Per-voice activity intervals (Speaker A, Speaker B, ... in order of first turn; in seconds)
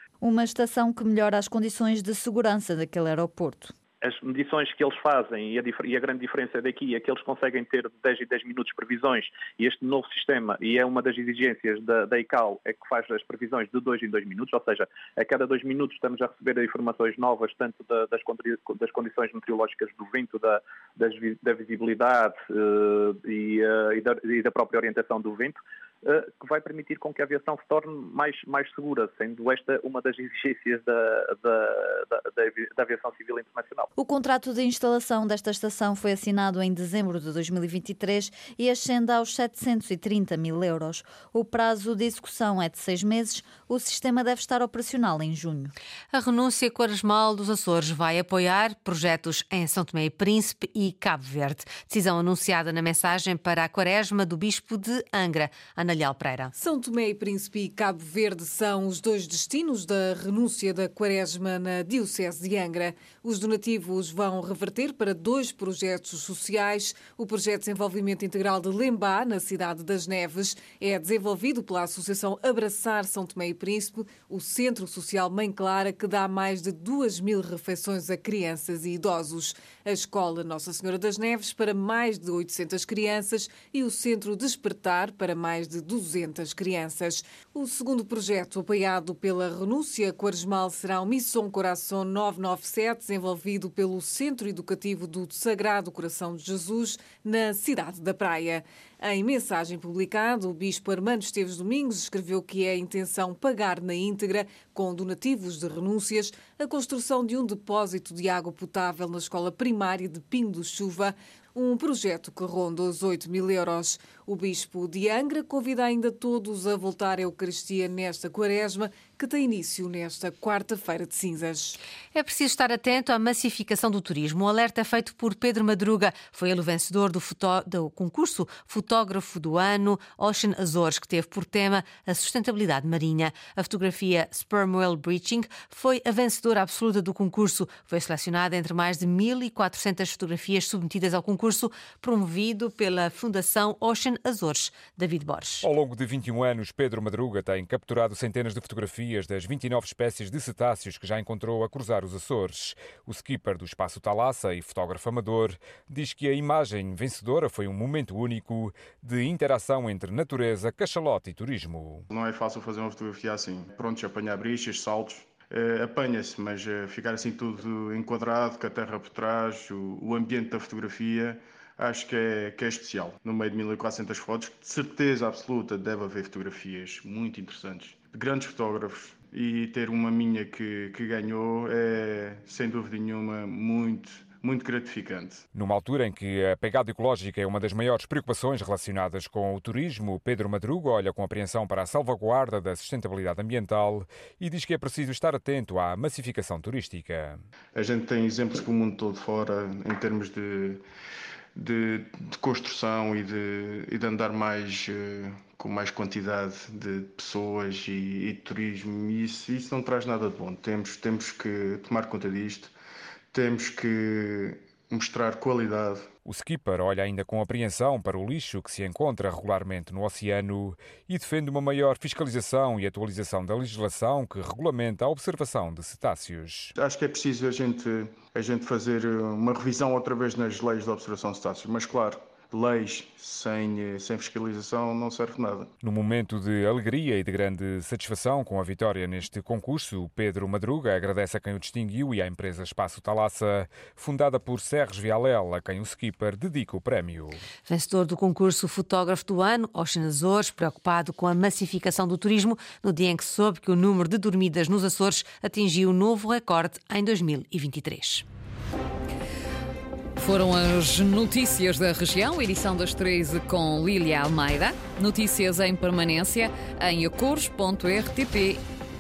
Speaker A: 0.2-3.7, 34.0-45.7
Speaker B: 4.0-33.9
Speaker C: 46.1-56.5, 122.1-145.7, 247.7-258.2
Speaker D: 56.6-121.8
Speaker E: 145.6-162.1, 185.5-197.4, 216.2-226.7, 235.8-247.4
Speaker F: 162.1-185.4, 197.8-200.8, 201.6-212.7, 213.3-216.1, 226.8-235.7
Speaker G: 260.2-268.6